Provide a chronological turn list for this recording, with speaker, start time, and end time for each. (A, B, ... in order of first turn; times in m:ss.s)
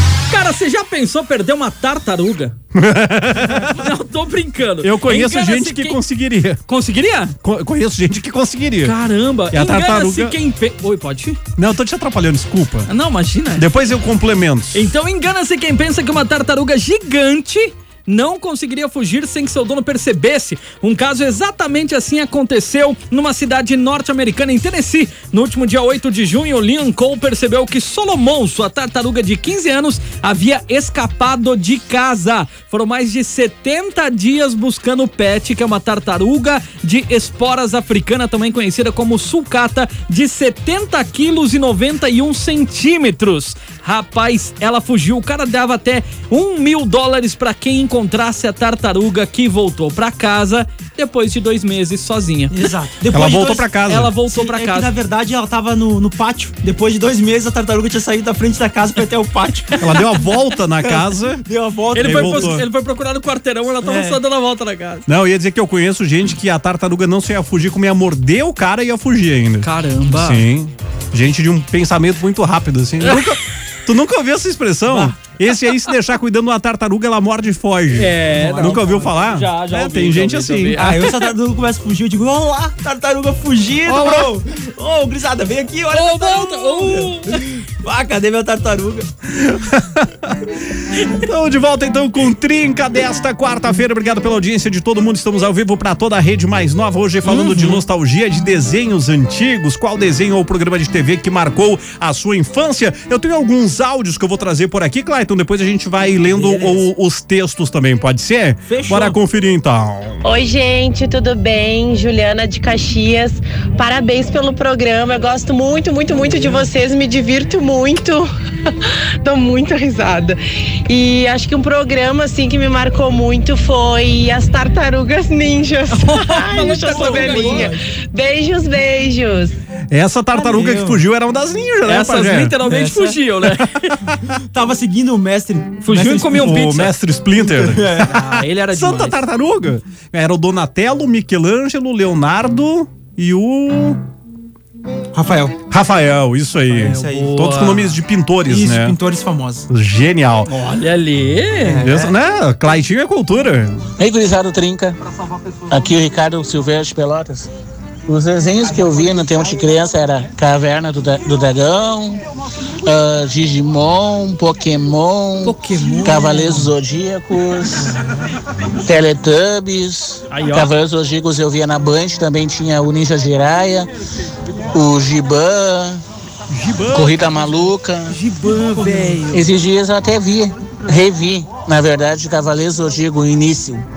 0:00.3-0:02.6 A
0:02.7-0:03.9 B
0:03.4-0:06.0 A
0:04.8-0:06.6 B
0:06.7-0:07.4 A
0:07.4-0:09.0 B
0:08.8-0:11.4 A
0:09.5-0:10.4 B
0:11.6-0:12.9 B
0:12.9-0:13.7 A
0:13.6-0:14.9 B
0:14.7-0:52.5 A
0:52.5-0:53.7 C
0:53.1-0:54.1 B
0:53.9-0:54.9 A
0:54.3-1:00.0 C
0:59.8-1:02.6 B
1:00.8-1:02.6 C
1:01.9-1:05.0 A
1:03.8-1:04.2 C
1:05.1-1:20.9 B
1:09.6-1:10.4 A
1:14.9-1:15.1 C
1:17.9-1:21.2 A
1:18.3-1:19.1 C
1:20.8-1:29.1 C
1:23.9-1:24.3 B
1:25.9-1:27.5 A
1:29.3-1:50.2 B
1:37.2-1:37.8 A
1:46.3-1:46.8 C
1:48.7-1:49.2 C
1:50.2-2:09.5 D
1:56.1-1:56.6 C
2:05.9-2:07.7 A
2:06.8-2:07.8 C
2:09.9-2:12.6 B
2:10.3-2:11.0 C
2:11.8-2:14.0 A
2:12.6-2:13.2 C
2:14.5-2:16.5 C
2:15.8-2:16.9 A
2:16.3-2:24.0 B
2:17.4-2:18.2 C
2:18.0-2:19.2 A
2:25.1-2:25.6 C
2:25.7-2:29.0 B
2:26.7-2:27.3 C
2:26.9-2:28.0 A
2:28.5-2:29.6 C
2:29.7-2:30.5 B
2:30.5-2:31.9 A
2:31.7-2:32.1 C
2:31.8-2:33.9 B
2:34.0-2:35.0 E
2:35.7-2:37.5 E
2:38.1-2:42.2 E
2:42.8-2:47.9 E
2:45.4-2:46.7 A
2:48.8-2:53.9 E
2:50.3-2:50.7 A
2:54.7-2:56.0 E
2:56.6-2:57.2 A
2:56.9-2:58.2 E
2:58.1-2:59.5 A
2:58.5-2:59.3 C
2:59.3-3:03.8 E